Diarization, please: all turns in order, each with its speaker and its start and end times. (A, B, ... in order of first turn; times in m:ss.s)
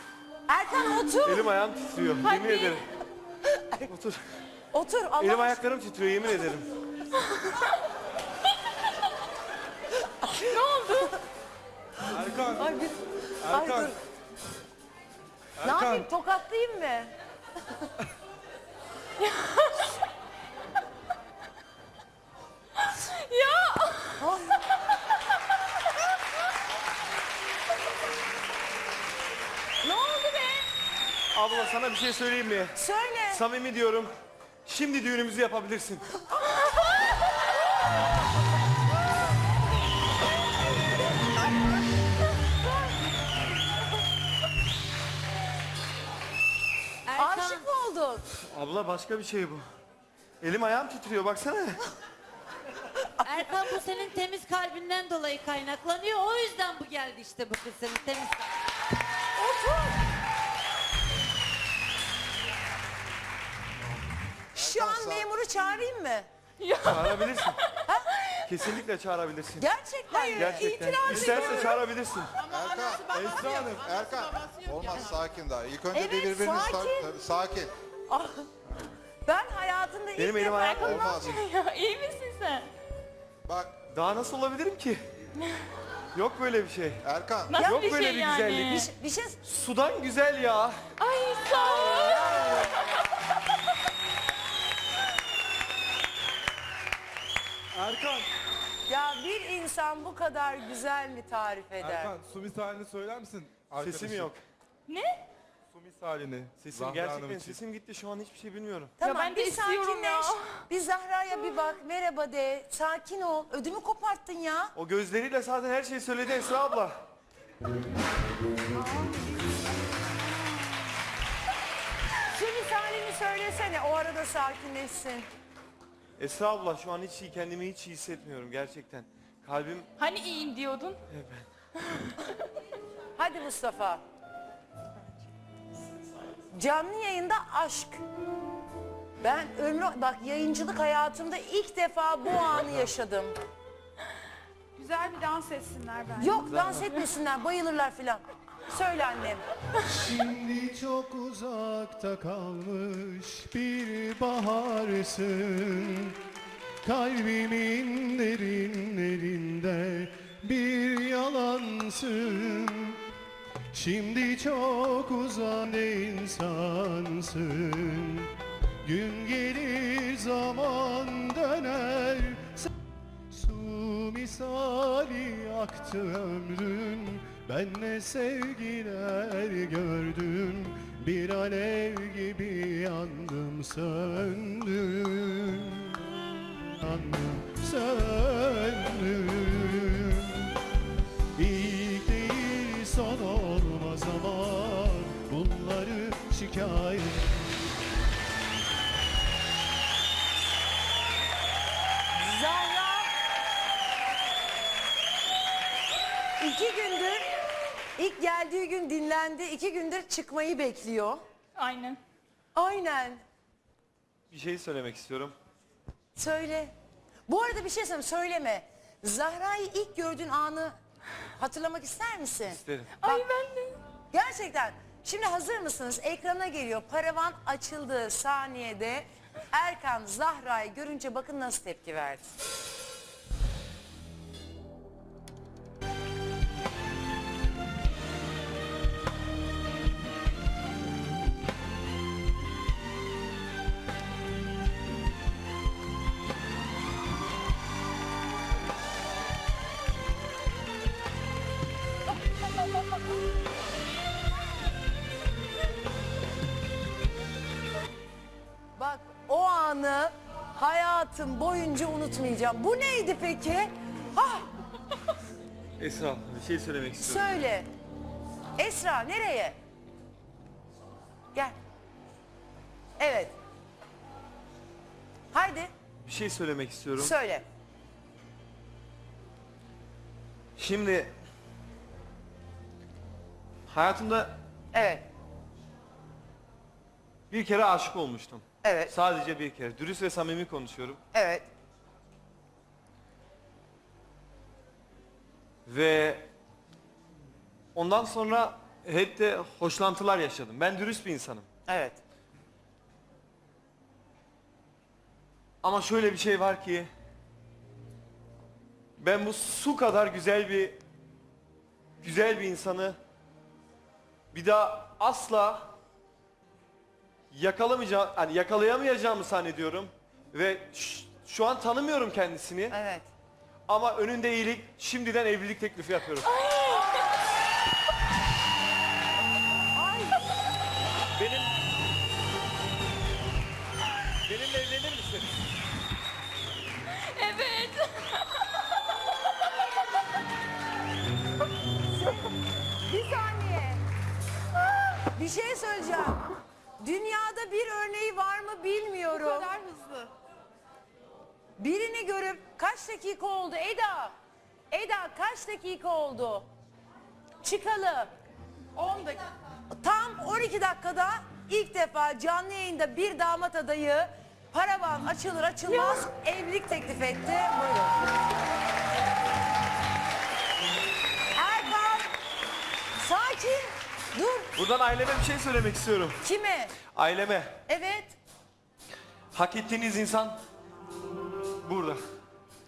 0:00.5-0:01.5 A
0:01.2-0:02.8 B
0:02.2-0:02.8 C
0:03.6-0:03.9 A
0:03.9-0:04.2 B
0:04.7-0:05.6 A
0:05.2-0:06.6 B
0:10.4-0:11.2 C
0:12.1-0:12.7 D
0:12.5-0:14.0 A
0:13.4-0:13.9 D
0:15.6-0:16.1 D
0:15.6-0:17.1 A
0:19.2-0:20.0 C
0:22.8-0:24.3 C
0:24.2-0:24.5 A
0:29.8-0:30.7 A
0:31.3-0:34.1 B
0:32.8-0:33.4 A
0:34.7-0:36.0 B
0:47.0-0:47.7 E
0:47.2-0:48.2 A
0:48.5-0:49.6 B
0:50.4-0:51.8 B
0:53.2-0:58.5 E
0:53.2-0:53.8 A
0:59.4-1:00.0 A
1:04.5-1:06.3 A
1:04.6-1:05.3 F
1:06.6-1:07.5 C
1:06.8-1:07.6 B
1:08.5-1:09.6 B
1:09.6-1:11.8 A
1:10.1-1:10.8 C
1:10.4-1:12.3 B
1:11.0-1:11.7 D
1:12.4-1:15.4 G
1:12.5-1:17.7 F
1:13.1-1:13.9 D
1:15.9-1:17.1 A
1:18.1-1:18.5 A
1:19.2-1:20.9 A
1:20.2-1:21.1 B
1:20.5-1:22.7 C
1:20.8-1:21.4 F
1:23.4-1:23.8 F
1:23.9-1:25.0 B
1:26.1-1:27.0 B
1:27.0-1:27.6 F
1:27.5-1:28.9 C
1:27.5-1:27.9 A
1:27.6-1:28.7 B
1:28.6-1:29.4 A
1:29.4-1:30.8 B
1:31.0-1:32.8 C
1:31.5-1:32.9 A
1:37.7-1:38.3 D
1:38.9-1:42.1 A
1:41.8-1:44.3 D
1:43.8-1:44.4 B
1:44.9-1:45.2 C
1:45.7-1:47.6 D
1:46.6-1:48.9 B
1:49.0-1:54.7 A
1:49.0-1:50.4 C
1:54.7-1:57.0 B
2:02.3-2:05.3 A
2:06.2-2:09.9 B
2:10.0-2:11.0 C
2:11.1-2:11.4 B
2:13.2-2:14.0 A
2:16.5-2:18.0 A
2:19.2-2:23.3 A
2:24.8-2:26.8 G
2:26.2-2:29.4 A
2:29.9-2:36.2 H
2:36.8-2:43.0 H
2:43.7-2:48.3 H
2:48.8-2:52.7 H
2:53.3-3:06.0 H
3:06.8-3:10.5 H
3:11.4-3:17.5 H
3:22.1-3:23.1 A
3:26.4-3:27.3 A
3:28.0-3:31.2 A
3:31.6-3:32.0 C
3:32.5-3:33.2 A
3:34.3-3:35.3 B
3:36.2-3:36.7 A
3:37.3-3:40.8 A
3:41.4-3:43.2 A
3:42.5-3:42.9 B
3:43.0-3:43.8 C
3:44.1-3:52.3 A
4:18.8-4:24.4 A
4:25.8-4:27.4 B
4:27.0-4:27.7 A
4:28.6-4:29.6 A
4:33.0-4:33.3 A
4:35.3-4:35.7 A
4:36.0-4:37.1 B
4:37.0-4:37.4 A
4:40.6-4:41.1 B
4:43.7-4:44.3 B
4:44.7-4:45.0 A
4:47.3-4:51.0 B
4:48.6-4:48.9 A
4:51.1-4:51.4 A
4:55.6-4:56.3 B
4:57.7-5:01.4 B
5:01.7-5:02.0 A
5:05.6-5:06.9 B
5:09.0-5:10.8 B
5:12.0-5:13.0 B
5:14.3-5:15.7 B
5:17.3-5:22.8 B
5:22.7-5:23.0 A
5:23.7-5:26.3 B
5:26.3-5:27.0 C
5:29.8-5:30.2 A
5:31.2-5:31.5 B
5:34.2-5:35.3 B
5:36.9-5:38.4 C
5:41.9-5:42.3 A
5:42.9-5:43.8 A
5:45.1-5:46.2 A
5:46.8-5:49.5 A
5:49.1-5:50.1 G
5:51.6-5:54.1 A
5:54.7-5:56.5 A
5:57.4-5:58.1 A
5:58.8-5:59.2 G
5:59.8-6:08.0 A
6:11.4-6:12.1 A
6:13.0-6:14.5 A
6:14.6-6:16.2 B
6:16.2-6:16.8 A
6:16.9-6:17.6 B
6:17.7-6:18.2 A
6:19.3-6:20.4 B
6:21.6-6:22.0 B